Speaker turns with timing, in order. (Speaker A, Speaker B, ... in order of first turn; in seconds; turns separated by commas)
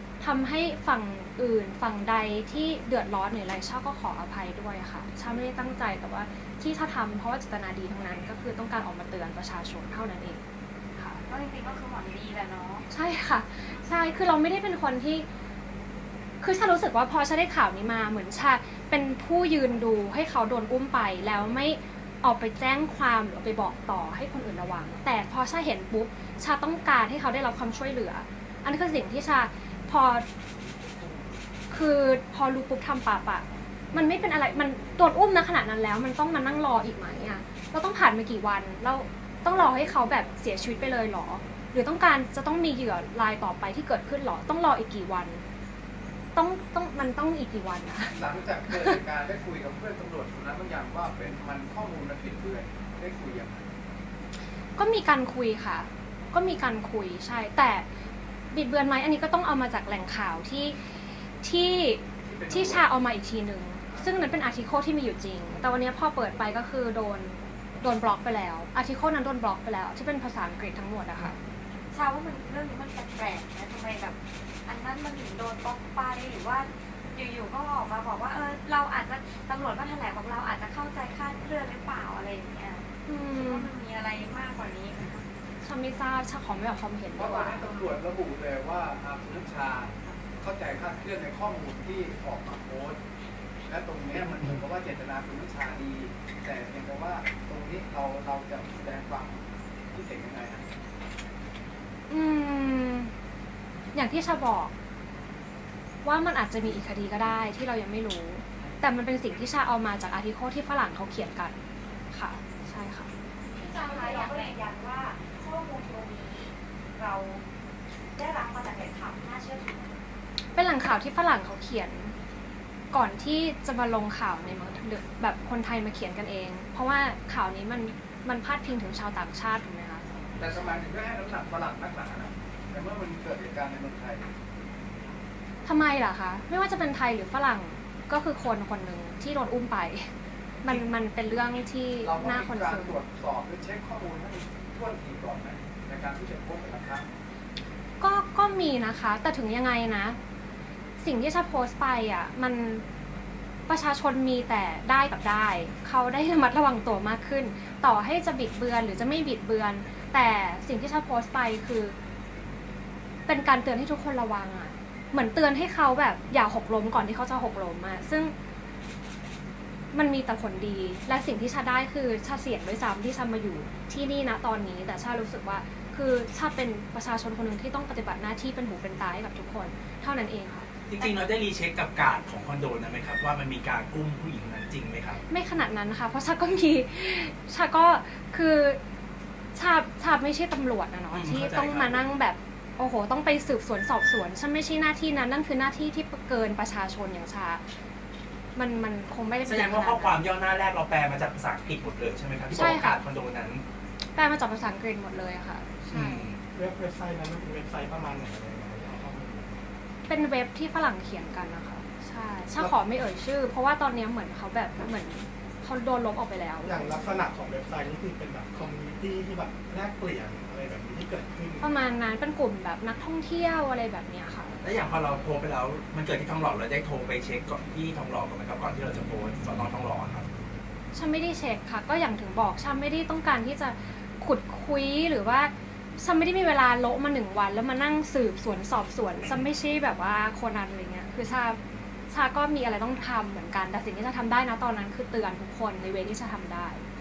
Speaker A: 0.2-10.4, Speaker B: 11.3-12.8, Speaker A: 12.9-15.2, Speaker A: 16.4-30.2, Speaker A: 31.7-45.4, Speaker A: 46.3-49.0, Speaker C: 48.1-53.6, Speaker A: 54.8-57.8, Speaker A: 58.5-71.4, Speaker C: 62.2-62.9, Speaker B: 71.9-85.3, Speaker A: 83.1-83.7, Speaker A: 85.6-87.6, Speaker C: 87.2-93.0, Speaker C: 93.7-99.4, Speaker C: 99.9-100.6, Speaker A: 102.1-103.1, Speaker A: 103.9-104.7, Speaker A: 106.0-111.6, Speaker A: 112.1-113.1, Speaker B: 113.6-114.6, Speaker D: 113.6-117.4, Speaker D: 118.1-120.0, Speaker A: 120.5-122.1, Speaker A: 122.9-130.1, Speaker C: 130.4-134.3, Speaker A: 135.6-140.1, Speaker A: 140.6-143.0, Speaker C: 142.0-147.1, Speaker A: 148.0-150.2, Speaker A: 151.0-152.8, Speaker A: 153.7-161.9, Speaker A: 163.3-168.3, Speaker A: 169.9-180.7, Speaker E: 180.9-185.2, Speaker A: 185.3-188.8, Speaker A: 189.5-197.6, Speaker E: 191.1-192.0, Speaker A: 198.6-200.2, Speaker E: 199.4-203.6, Speaker A: 202.5-203.0, Speaker A: 204.1-206.3, Speaker E: 205.9-206.4, Speaker F: 206.5-209.6, Speaker A: 210.1-217.2, Speaker F: 216.6-221.7, Speaker A: 221.6-224.5, Speaker E: 224.6-230.2, Speaker A: 230.9-241.6, Speaker A: 242.1-246.8